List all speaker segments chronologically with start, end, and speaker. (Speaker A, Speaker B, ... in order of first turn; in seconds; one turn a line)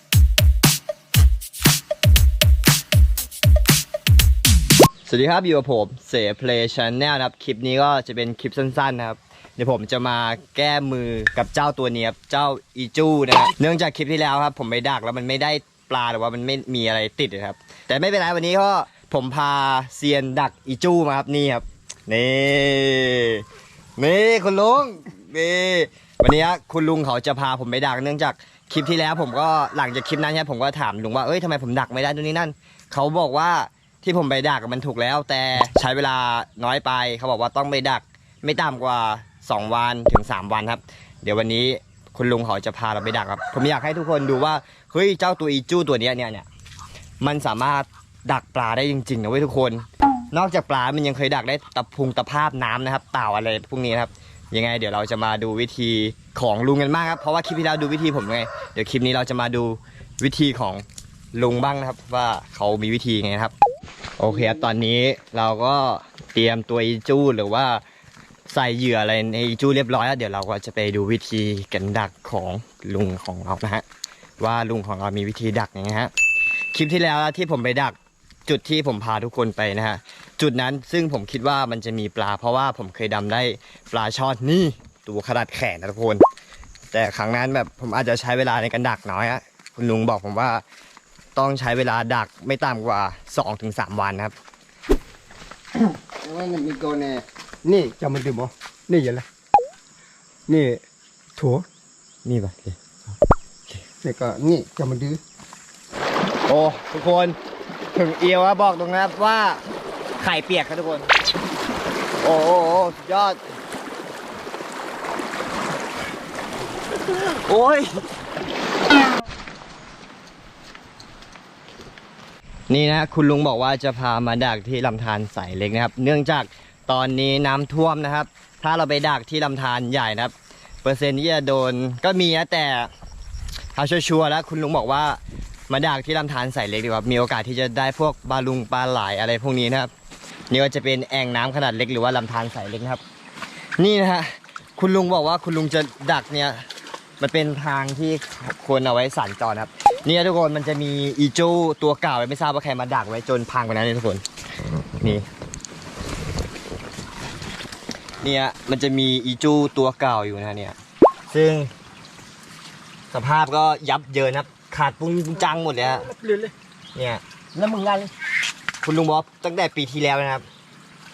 Speaker A: 5.0-23.4
Speaker A: 24.0-46.5
Speaker A: 47.2-63.5
Speaker A: 64.2-67.8
Speaker A: 68.5-73.8
Speaker A: 74.4-76.1
Speaker A: 76.7-86.2
Speaker A: 86.9-90.6
Speaker A: 91.3-94.3
Speaker B: 96.2-99.2
Speaker B: 100.5-100.8
Speaker B: 101.3-101.7
Speaker A: 102.2-102.8
Speaker B: 104.0-105.2
Speaker A: 106.5-107.4
Speaker A: 107.9-109.6
Speaker A: 110.2-111.1
Speaker A: 112.2-113.4
Speaker A: 117.0-118.0
Speaker A: 122.7-132.9
Speaker A: 133.7-139.9
Speaker A: 140.5-143.0
Speaker A: 143.8-146.7
Speaker A: 147.2-154.2
Speaker A: 154.8-155.3
Speaker A: 158.2-160.8
Speaker A: 161.3-161.7
Speaker A: 163.1-166.1
Speaker B: 166.1-166.5
Speaker A: 166.9-167.2
Speaker B: 167.5-168.1
Speaker A: 168.8-170.4